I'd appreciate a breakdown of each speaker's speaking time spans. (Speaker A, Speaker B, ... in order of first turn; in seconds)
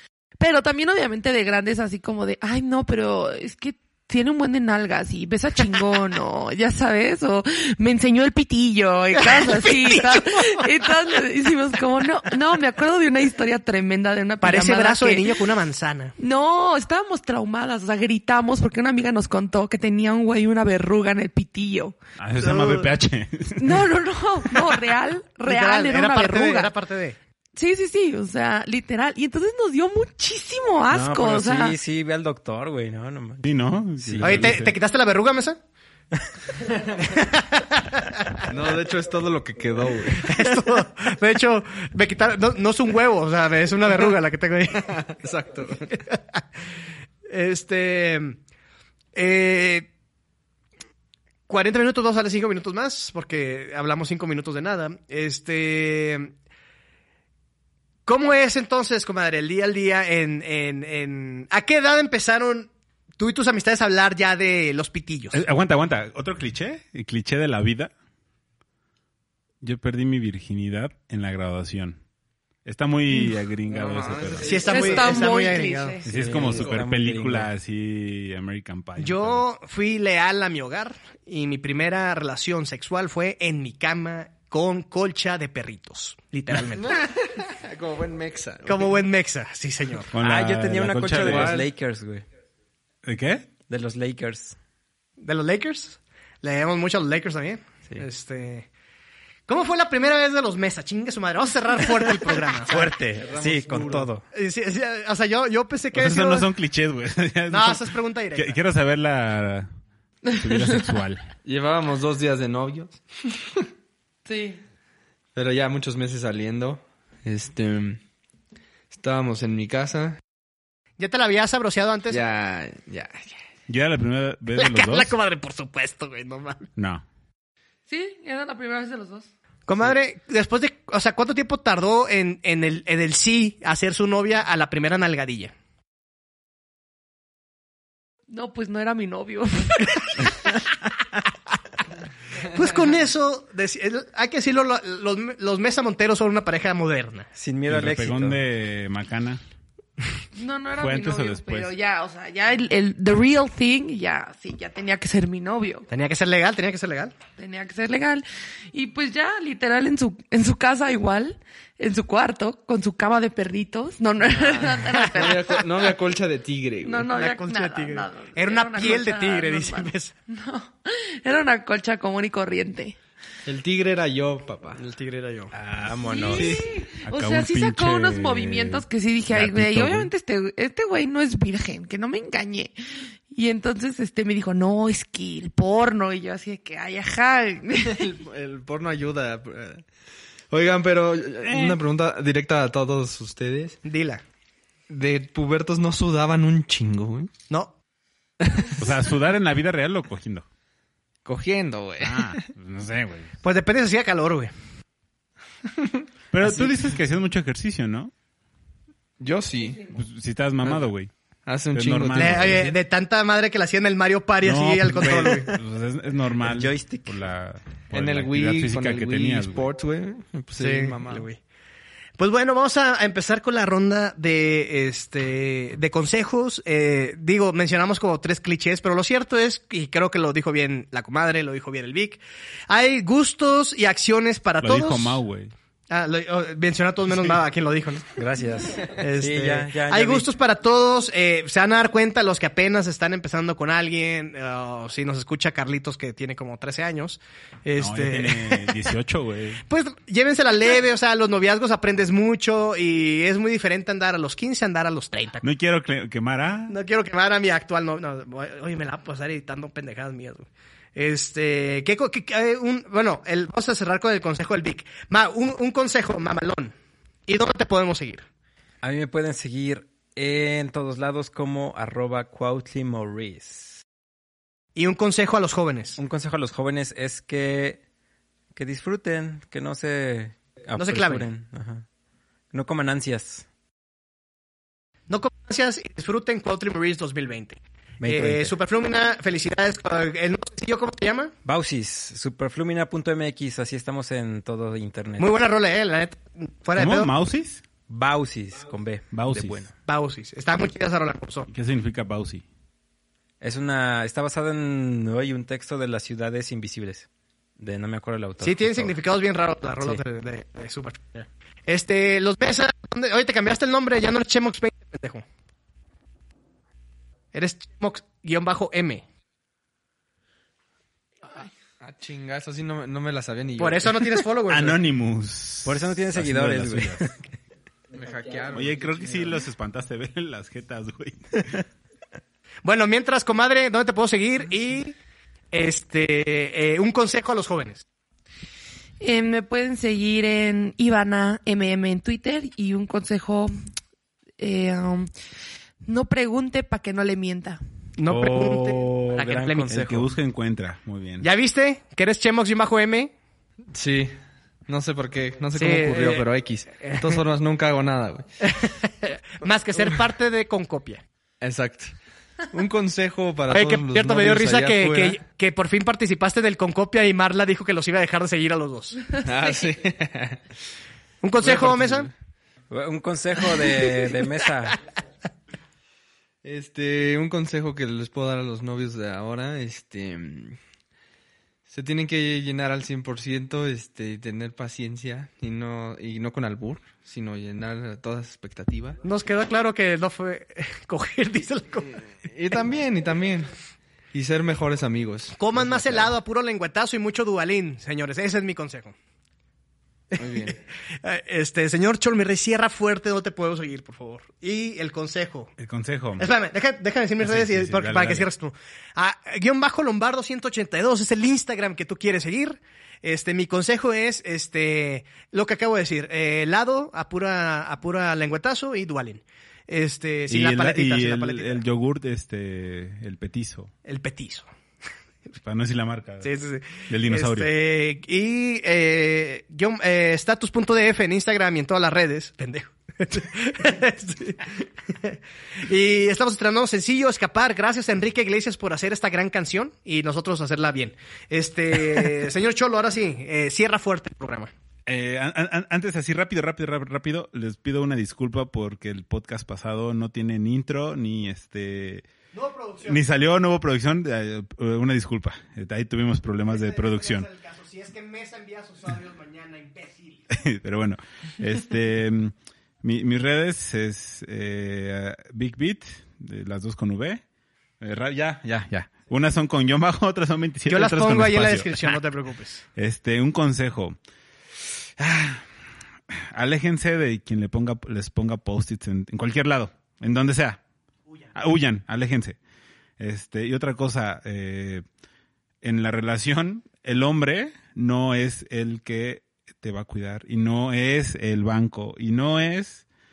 Speaker A: 0.4-15.4, 16.2-21.9, 23.6-26.7, 27.6-31.8, 74.7-76.0, 110.3-110.6, 114.2-114.6, 127.9-129.3, 138.3-140.5, 150.3-155.8, 157.3-165.4, 166.8-173.0, 176.0-182.7, 183.3-188.1, 339.0-343.5, 344.4-345.1, 345.8-347.6
Speaker B: 9.2-10.7, 14.4-16.1, 22.4-22.9, 25.4-27.2, 34.2-35.6, 37.0-38.5, 40.2-44.9, 45.9-46.4, 47.3-48.4, 49.1-49.9, 51.5-56.3, 58.0-65.4, 74.4-76.0, 79.0-86.9, 88.7-90.1, 95.2-98.7, 99.5-102.9, 104.3-106.5, 107.5-108.6, 121.0-122.2, 124.5-126.7, 129.7-135.5, 142.5-147.3, 155.9-157.2, 165.1-165.4, 167.1-170.2, 174.8-175.5, 193.8-194.2, 203.4-204.5, 212.2-215.5, 220.6-221.4, 222.2-235.2, 235.9-238.1, 238.9-248.8, 249.7-255.4, 256.7-266.7, 267.3-268.2, 274.8-276.0, 280.8-281.3, 285.1-291.3, 295.2-297.1, 299.9-301.5, 308.4-315.2, 317.3-319.0, 323.6-324.8, 332.6-334.9, 335.5-337.8, 348.0-350.1, 351.2-353.1, 355.5-356.2, 356.8-357.2, 358.5-361.0, 363.5-369.1, 371.2-372.1, 389.0-392.0, 395.4-398.9, 400.1-405.5, 406.2-421.6, 423.9-424.5, 426.2-444.5, 452.3-453.0, 456.5-460.3, 470.7-472.6
Speaker C: 22.2-23.9, 33.4-34.7, 65.3-67.9, 69.6-72.0, 72.6-74.6, 76.0-79.4, 90.1-91.6, 93.0-93.5, 105.9-109.7, 110.3-111.2, 123.7-125.1, 126.8-127.0, 147.7-149.4, 150.8-151.7, 177.0-180.1, 191.5-191.8, 198.8-200.4, 202.0-203.3, 206.3-208.1, 209.9-211.1, 211.7-212.7, 214.4-219.7, 234.6-235.5, 247.8-249.6, 255.4-256.8, 296.8-297.6, 299.1-299.6, 301.5-302.4, 324.5-327.0, 328.5-331.6, 349.7-351.3, 405.6-406.3, 407.2-408.3, 420.3-423.7, 425.4-426.3, 426.9-427.5, 444.9-452.1, 452.8-457.3, 460.3-467.2, 467.8-472.0, 472.8-474.0, 475.0-475.4, 476.1-480.6, 481.4-482.4, 483.0-484.8, 485.6-492.8
Speaker D: 30.9-34.5, 76.0-77.5, 90.1-92.2, 93.7-94.5, 102.7-104.2, 147.3-148.4, 175.5-176.6, 216.4-217.1, 238.2-240.3, 268.8-273.8, 276.0-277.8, 278.5-281.8, 282.5-283.4, 288.0-288.5, 291.4-295.4, 297.9-299.7, 303.4-307.1, 307.6-308.9, 325.6-327.1, 348.1-350.0, 372.7-374.8
Speaker E: 38.5-40.5, 43.9-44.1, 44.7-45.9, 73.7-75.3, 76.4-76.8, 86.7-89.0, 91.1-91.7, 103.2-104.1, 111.4-113.6, 115.3-118.0, 118.9-120.2, 122.1-123.4, 164.2-167.1, 173.4-174.8, 176.3-176.7, 187.8-189.8, 190.5-193.8, 194.9-197.3, 198.4-199.0, 201.2-202.4, 205.8-206.7, 209.2-209.9, 210.6-210.9, 211.4-212.8, 217.9-221.3, 321.8-324.2, 327.9-329.4, 353.7-358.2, 361.4-362.0, 362.5-365.2, 369.1-370.5, 371.4-372.1, 376.4-380.6, 381.7-389.0, 392.2-393.5, 394.1-396.1, 400.1-400.6